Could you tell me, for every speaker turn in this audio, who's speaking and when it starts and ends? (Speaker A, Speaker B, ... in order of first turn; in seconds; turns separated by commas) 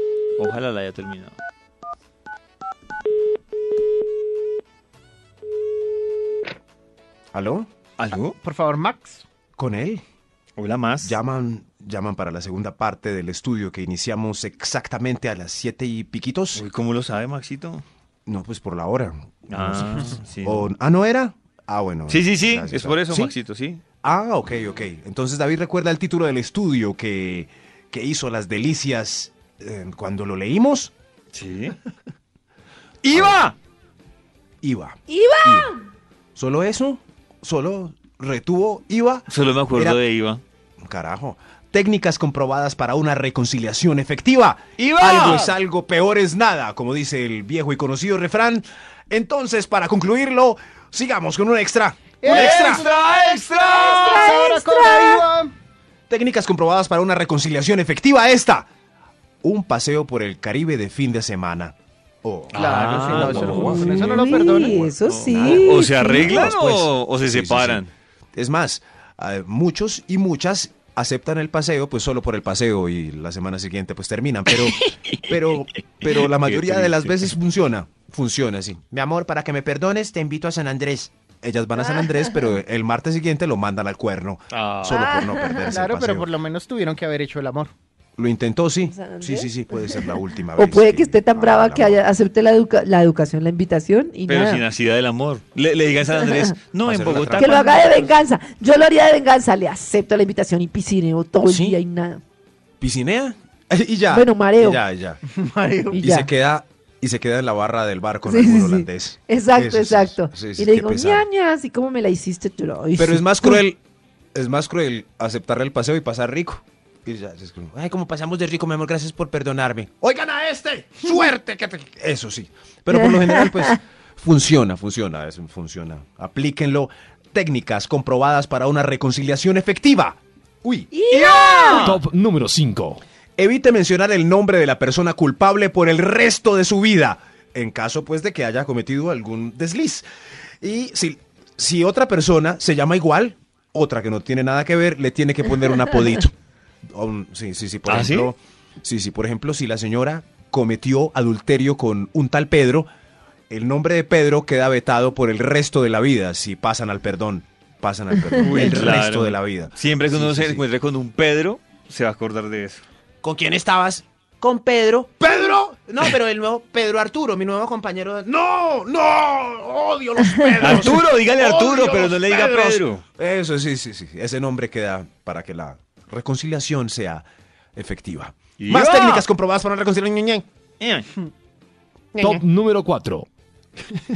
Speaker A: 0.4-1.3, Speaker B: 7.3-7.7, Speaker A: 8.0-8.3, Speaker C: 8.4-9.2, Speaker B: 9.6-10.0, Speaker A: 10.6-11.1, Speaker B: 11.0-16.6, Speaker A: 16.5-17.8, Speaker B: 18.3-23.3, Speaker A: 19.5-20.7, Speaker A: 22.1-23.8, Speaker B: 24.0-30.9, Speaker A: 31.3-31.8, Speaker B: 33.0-33.5, Speaker A: 33.1-33.5, Speaker B: 34.6-35.7, Speaker D: 35.1-35.8, Speaker B: 36.3-40.0, Speaker A: 39.3-40.4, Speaker B: 40.8-52.8, Speaker A: 44.8-45.5, Speaker C: 52.2-55.5, Speaker A: 52.2-54.2, Speaker D: 53.7-55.2, Speaker B: 56.1-58.7, Speaker B: 59.4-67.8, Speaker A: 62.5-64.5, Speaker C: 62.5-64.8, Speaker D: 63.8-66.5, Speaker A: 65.0-67.9, Speaker B: 68.3-86.3, Speaker A: 74.5-75.2, Speaker A: 76.0-77.3, Speaker A: 84.5-85.0, Speaker D: 84.8-85.7, Speaker C: 85.7-87.7, Speaker B: 88.2-92.1, Speaker D: 88.8-94.6, Speaker A: 94.3-98.1, Speaker B: 96.8-97.9, Speaker D: 97.4-102.2, Speaker B: 101.4-101.8, Speaker B: 102.8-105.2, Speaker D: 104.1-104.8, Speaker C: 105.3-106.0, Speaker D: 105.9-106.3, Speaker B: 106.0-111.3, Speaker D: 108.2-113.6, Speaker B: 113.0-113.8, Speaker B: 114.3-130.9, Speaker D: 130.9-131.9, Speaker A: 131.1-132.0, Speaker E: 131.7-133.0, Speaker B: 133.4-140.1, Speaker B: 140.6-146.3, Speaker B: 146.9-152.9, Speaker A: 147.8-148.3, Speaker B: 153.5-160.6, Speaker A: 158.3-162.8, Speaker B: 163.2-180.5, Speaker A: 170.6-173.0, Speaker A: 178.6-179.2, Speaker A: 180.8-181.1, Speaker B: 182.1-182.4, Speaker E: 182.2-183.3